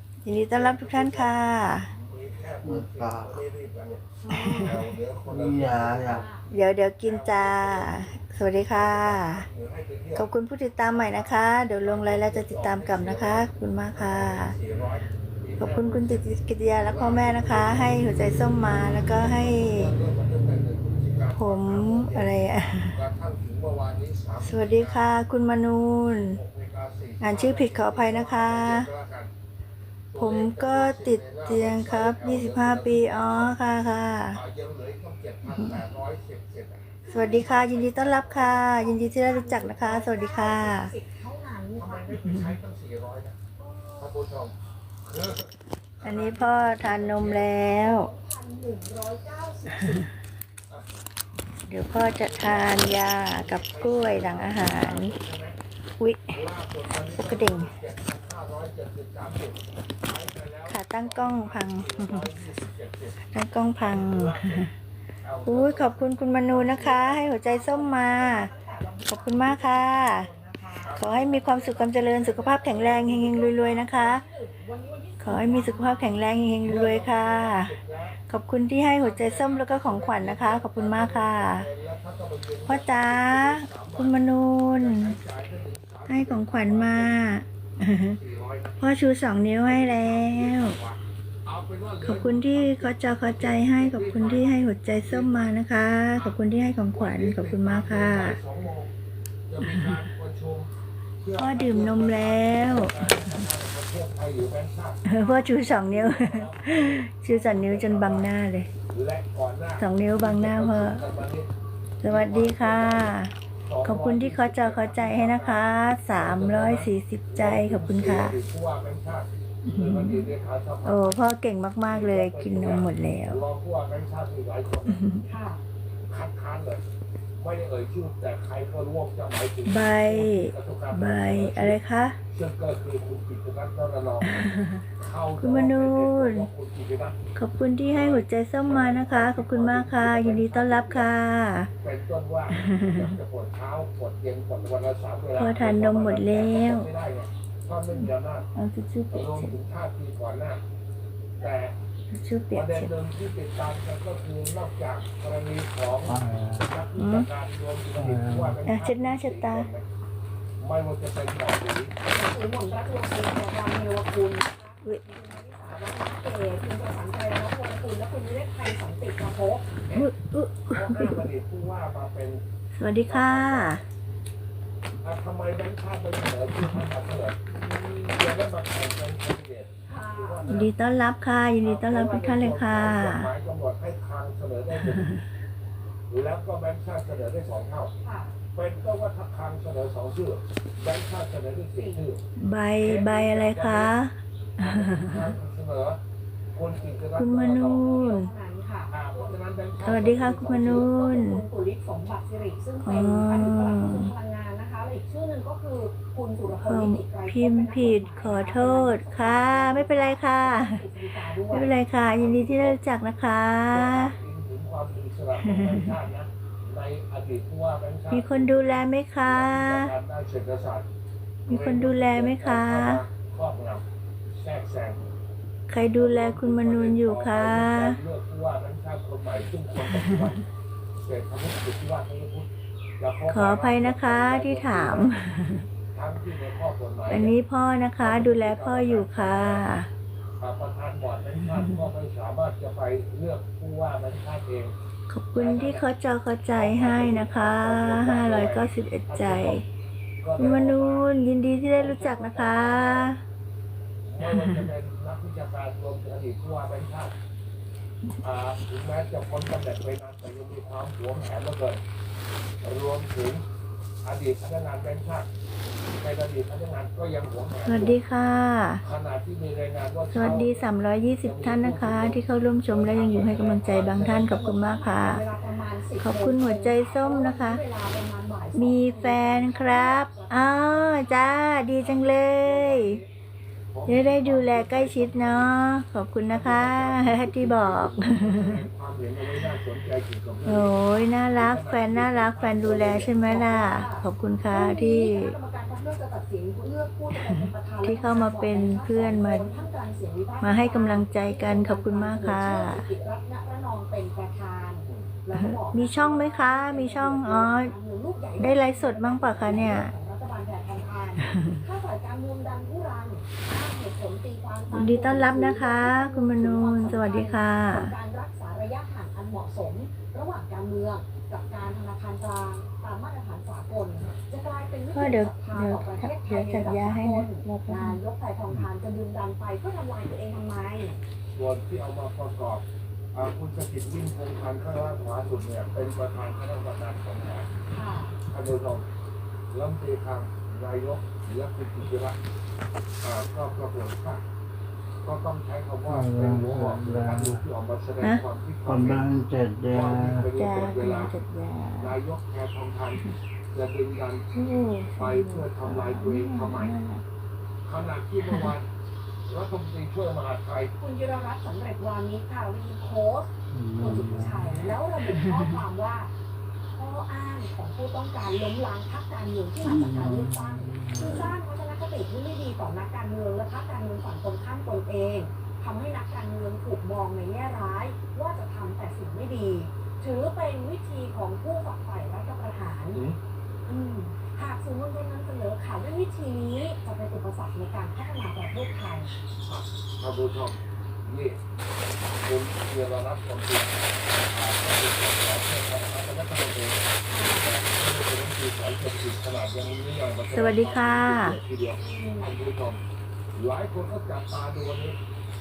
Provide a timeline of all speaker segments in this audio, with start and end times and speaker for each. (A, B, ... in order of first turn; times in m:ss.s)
0:00.2-0:01.9 A
0:00.5-0:06.2 B
0:02.6-0:03.4 C
0:04.2-0:04.6 D
0:04.3-0:04.8 A
0:04.6-0:06.3 C
0:06.0-0:06.5 D
0:06.5-0:09.5 A
0:07.0-0:10.3 B
0:10.2-0:14.6 A
0:10.9-0:16.2 B
0:15.6-0:20.0 A
0:16.8-0:25.0 B
0:21.4-0:23.0 A
0:24.4-0:26.4 A
0:26.3-0:29.3 B
0:27.2-0:28.9 A
0:30.1-0:33.5 B
0:30.2-0:34.4 A
0:34.3-0:38.7 B
0:35.5-0:35.8 A
0:37.1-0:37.5 D
0:37.1-0:40.9 A
0:38.7-0:42.1 D
0:41.8-0:43.4 B
0:42.3-0:42.5 A
0:43.6-0:44.1 D
0:44.0-0:47.6 B
0:46.0-0:48.1 A
0:47.7-0:50.1 D
0:51.7-0:55.2 A
0:51.9-0:55.6 B
0:56.0-0:56.4 A
0:56.3-1:03.2 B
0:57.1-0:57.7 A
1:00.7-1:02.3 A
1:03.3-1:04.7 A
1:03.8-1:04.7 B
1:05.2-1:07.1 B
1:05.4-1:08.5 A
1:06.8-1:11.0 D
1:09.1-1:10.3 A
1:10.8-1:13.7 B
1:10.9-1:14.2 A
1:13.3-1:16.2 D
1:15.2-1:17.8 A
1:16.6-1:18.2 B
1:18.3-1:21.7 A
1:19.0-1:24.2 B
1:22.7-1:25.2 A
1:24.8-1:27.2 B
1:26.1-1:28.2 A
1:28.1-1:28.7 B
1:28.8-1:30.8 A
1:29.6-1:35.5 B
1:32.0-1:38.4 A
1:36.9-1:38.9 B
1:39.5-1:40.7 B
1:39.6-1:40.0 A
1:41.2-1:48.3 B
1:41.4-1:43.4 A
1:45.0-1:48.7 A
1:48.9-1:51.5 B
1:49.8-1:51.0 A
1:52.0-1:53.3 A
1:52.0-2:01.2 B
1:53.8-1:58.4 A
1:59.6-2:00.3 A
2:00.8-2:03.4 A
2:01.9-2:05.2 B
2:04.9-2:05.2 A
2:05.3-2:05.6 D
2:06.1-2:06.8 B
2:07.4-2:11.8 B
2:09.7-2:12.2 A
2:12.3-2:17.2 B
2:14.2-2:14.8 A
2:15.4-2:16.5 A
2:17.4-2:21.7 A
2:17.9-2:21.1 B
2:21.8-2:28.5 B
2:22.5-2:23.2 A
2:25.4-2:26.9 A
2:28.6-2:29.6 A
2:29.1-2:30.6 B
2:31.4-2:31.7 B
2:32.1-2:32.9 A
2:32.5-2:39.8 B
2:36.0-2:36.8 C
2:37.0-2:37.3 A
2:38.0-2:38.6 C
2:38.6-2:39.7 A
2:40.6-2:41.9 B
2:42.0-2:49.7 D
2:45.7-2:46.0 B
2:49.9-2:50.1 B
2:49.9-2:51.2 A
2:50.7-2:52.4 B
2:52.7-2:53.8 A
2:53.1-2:53.8 B
2:55.0-2:57.4 B
2:57.5-2:58.2 D
2:58.1-3:00.7 B
2:59.8-3:00.4 D
3:00.4-3:03.3 A
3:01.6-3:05.1 B
3:04.8-3:05.2 A
3:06.1-3:07.9 B
3:08.0-3:08.4 D
3:08.6-3:12.2 B
3:11.8-3:12.0 D
3:12.4-3:15.3 A
3:12.8-3:13.9 B
3:14.6-3:16.0 B
3:16.6-3:18.2 B
3:17.2-3:18.3 A
3:17.7-3:19.4 D
3:18.9-3:20.9 B
3:19.8-3:21.4 A
3:20.5-3:31.7 D
3:22.8-3:24.1 A
3:26.6-3:30.8 A
3:31.5-3:34.1 A
3:32.2-3:32.8 B
3:33.7-3:40.9 B
3:35.4-3:36.0 A
3:38.1-3:39.9 A
3:41.5-3:43.8 B
3:41.5-3:43.0 A
3:44.4-3:45.0 B
3:45.7-3:48.0 A
3:45.9-3:50.4 B
3:49.8-3:50.4 A
3:51.0-3:55.1 B
3:53.3-3:55.7 A
3:55.9-3:57.4 B
3:57.1-3:59.9 A
3:58.0-3:59.7 B
4:00.4-4:04.7 B
4:05.1-4:09.6 A
4:05.4-4:05.9 B
4:06.5-4:09.6 B
4:10.2-4:11.0 B
4:10.4-4:13.2 A
4:11.8-4:13.1 B
4:14.1-4:17.2 B
4:14.2-4:14.7 A
4:18.2-4:21.8 B
4:22.6-4:23.4 B
4:24.0-4:25.3 B
4:26.0-4:28.0 B
4:27.7-4:28.8 A
4:28.8-4:30.7 B
4:30.1-4:35.2 A
4:31.2-4:34.4 B
4:34.1-4:41.2 D
4:36.0-4:37.6 A
4:38.6-4:43.0 A
4:41.8-4:43.1 B
4:43.7-4:45.5 B
4:43.9-4:48.7 A
4:46.3-4:53.2 B
4:50.5-4:55.4 A
4:53.2-5:31.0 D
4:57.1-4:59.5 A
5:00.4-5:02.8 A
5:04.9-5:05.1 B
5:05.4-5:07.7 A
5:08.4-5:09.9 A
5:14.7-5:17.9 A
5:24.9-5:28.0 A
5:31.3-5:37.5 B
5:37.7-5:38.2 D
5:38.3-5:38.8 B
5:39.5-5:42.2 B
5:43.0-5:44.2 B
5:45.0-5:49.1 B
5:45.9-5:47.4 C
5:48.6-5:50.3 C
5:49.7-5:51.1 B
5:50.4-5:52.0 A
5:51.8-5:54.3 B
5:54.3-5:57.0 A
5:55.0-5:56.8 B
5:57.6-5:58.7 B
5:58.2-5:58.5 A
5:59.3-6:00.7 B
6:00.8-6:06.1 D
6:03.5-6:04.7 C
6:05.0-6:05.6 A
6:06.7-6:23.0 D
6:09.6-6:11.3 C
6:22.9-6:23.2 B
6:23.7-6:29.1 D
6:29.5-6:31.4 B
6:32.2-6:42.8 B
6:37.1-6:37.5 D
6:40.3-6:41.4 A
6:41.8-6:42.3 D
6:43.4-6:45.0 B